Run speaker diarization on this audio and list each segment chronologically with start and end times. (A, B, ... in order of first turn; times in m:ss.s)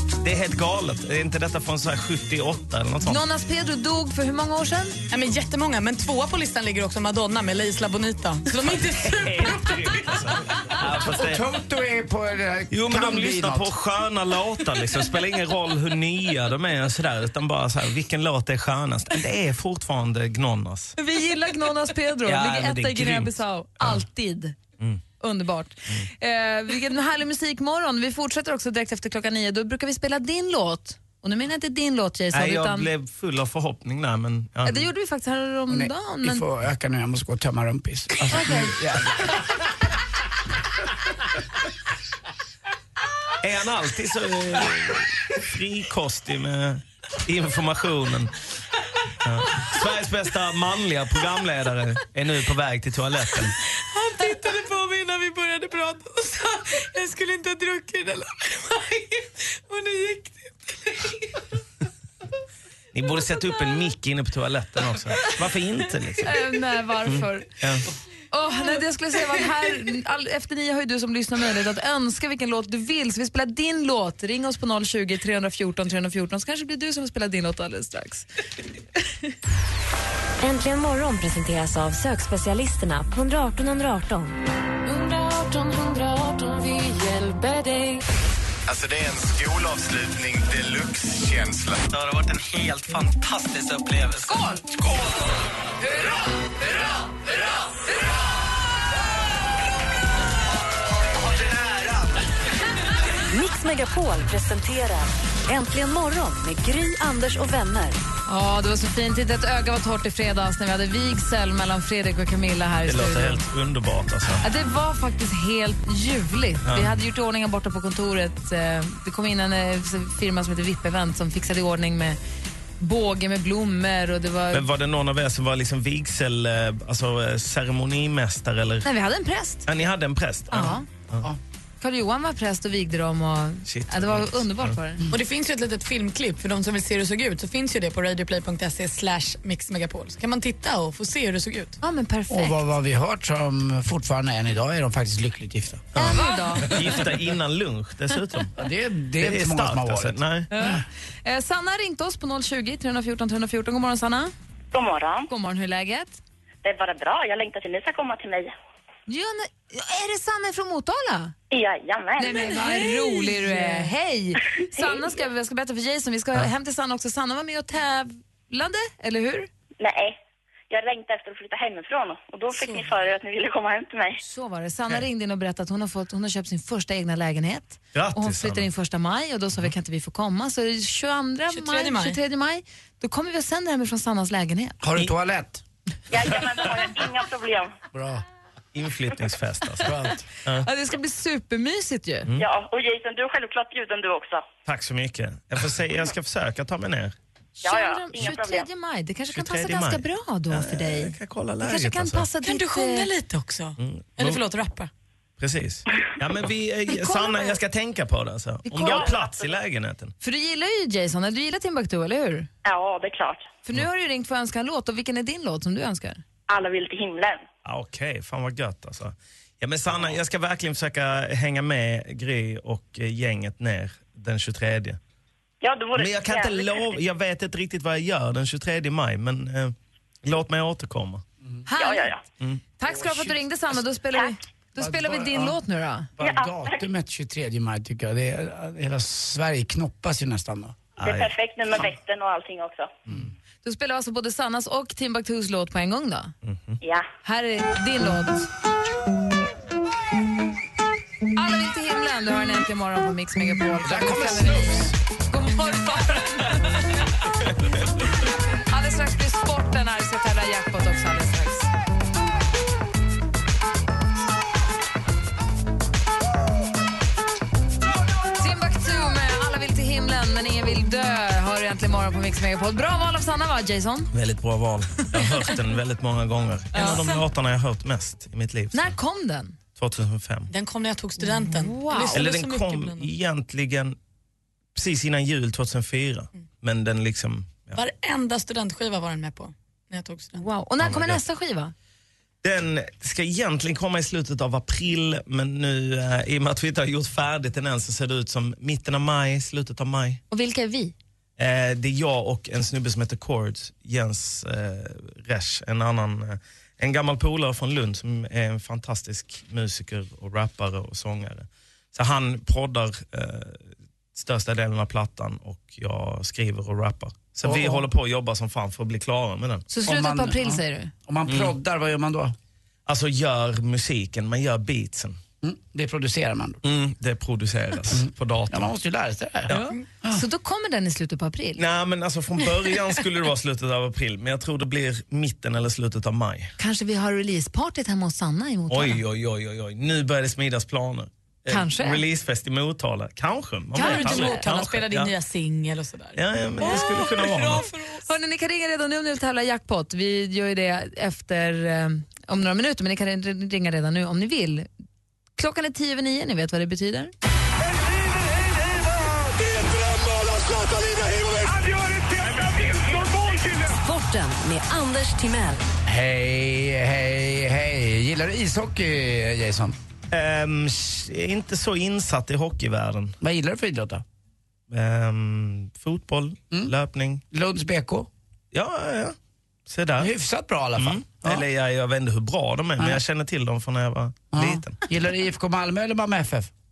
0:00.2-0:03.2 A
0:03.0-0:05.0 B
0:05.1-0:09.7 C
0:08.6-0:11.4 A
0:11.1-0:13.7 D
0:12.7-0:21.0 A
0:21.0-0:24.6 B
0:22.2-0:24.0 A
0:25.2-0:32.9 B
0:32.3-0:34.9 A
0:34.6-0:36.4 B
0:35.7-0:39.5 D
0:38.3-0:38.7 B
0:43.4-0:48.3 A
0:49.2-0:53.6 A
0:53.9-1:01.4 C
1:02.9-1:06.4 A
1:06.2-1:07.5 B
1:07.1-1:07.8 A
1:08.3-1:18.2 B
1:20.4-1:24.4 E
1:24.8-1:28.0 F
1:28.6-1:31.8 G
1:32.0-1:34.2 H
1:34.3-1:34.6 B
1:43.3-1:48.0 I
1:48.3-1:53.4 B
1:52.9-1:54.4 A
1:54.4-2:02.2 B
1:56.6-1:57.0 A
2:02.8-2:04.6 B
2:04.5-2:08.9 A
2:08.8-2:09.7 B
2:09.6-2:11.2 A
2:10.5-2:10.8 B
2:11.8-2:15.1 B
2:13.6-2:14.8 A
2:15.1-2:21.8 C
2:21.8-2:22.6 B
2:22.3-2:25.9 D
2:25.9-2:28.5 A
2:26.0-2:26.8 B
2:28.6-2:30.7 D
2:29.2-2:30.5 A
2:30.5-2:34.3 B
2:34.7-2:35.3 J
2:35.3-2:36.2 B
2:36.6-2:38.5 J
2:39.1-2:41.3 B
2:41.5-2:42.4 J
2:42.2-2:49.5 B
2:42.2-2:43.9 C
2:44.8-2:45.0 J
2:49.8-2:50.2 J
2:50.7-2:54.2 J
2:52.5-2:52.9 C
2:54.2-3:04.8 B
2:57.9-2:58.7 A
3:01.5-3:02.2 C
3:04.8-3:05.6 D
3:06.1-3:07.7 J
3:07.9-3:08.2 D
3:08.7-3:10.7 A
3:09.8-3:10.2 D
3:10.6-3:12.3 B
3:12.4-3:14.4 J
3:14.6-3:17.1 A
3:17.6-3:18.7 J
3:17.6-3:23.1 B
3:19.3-3:22.3 A
3:22.4-3:24.9 C
3:23.8-3:24.4 A
3:25.4-3:30.1 A
3:26.9-3:27.6 B
3:28.7-3:29.1 B
3:28.8-3:29.5 J
3:30.2-3:32.5 B
3:32.6-3:33.5 J
3:33.6-3:36.2 B
3:36.5-3:37.4 J
3:37.6-3:45.0 A
3:45.6-3:46.9 J
3:46.0-3:51.2 A
3:51.7-3:52.1 B
3:51.8-3:52.2 J
3:52.8-3:56.1 B
3:52.9-3:53.4 D
3:54.8-3:55.6 D
3:56.2-4:00.8 D
3:56.2-3:56.8 J
4:01.0-4:01.3 A
4:01.0-4:02.9 J
4:03.6-4:06.3 B
4:06.4-4:06.8 A
4:06.8-4:07.1 J
4:07.2-4:08.4 B
4:11.4-4:16.8 B
4:13.8-4:14.9 D
4:18.7-4:21.7 B
4:28.4-4:34.1 B
4:34.1-4:39.0 A
4:36.7-4:37.0 B
4:36.7-4:37.2 C
4:38.7-4:39.6 B
4:39.8-4:40.5 A
4:40.5-4:43.1 C
4:41.2-4:42.2 B
4:42.1-4:44.0 A
4:44.7-4:47.8 A
4:47.7-4:50.4 C
4:50.4-4:51.7 B
4:50.8-4:51.2 A
4:52.4-5:00.2 A
5:00.3-5:00.9 B
5:01.4-5:13.6 A
5:14.1-5:19.7 A
5:17.4-5:17.9 D
5:19.7-5:20.9 B
5:19.8-5:22.3 D
5:21.3-5:21.5 A
5:22.8-5:25.2 A
5:25.4-5:26.6 D
5:26.6-5:28.7 A
5:27.9-5:29.5 D
5:29.5-5:31.6 B
5:31.6-5:36.5 A
5:36.6-5:39.0 B
5:38.7-5:45.1 A
5:41.5-5:42.0 B
5:43.7-5:48.1 C
5:43.8-5:44.4 B
5:46.2-5:47.7 A
5:48.0-5:54.7 B
5:55.4-5:57.1 B
6:03.6-6:05.6 I
6:05.8-6:09.8 D
6:10.1-6:13.2 A
6:13.2-6:14.0 D
6:14.7-6:17.2 A
6:17.3-6:18.1 D
6:18.5-6:19.2 A
6:19.7-6:20.1 A
6:20.0-6:21.4 D
6:20.8-6:24.8 A
6:24.3-6:26.5 D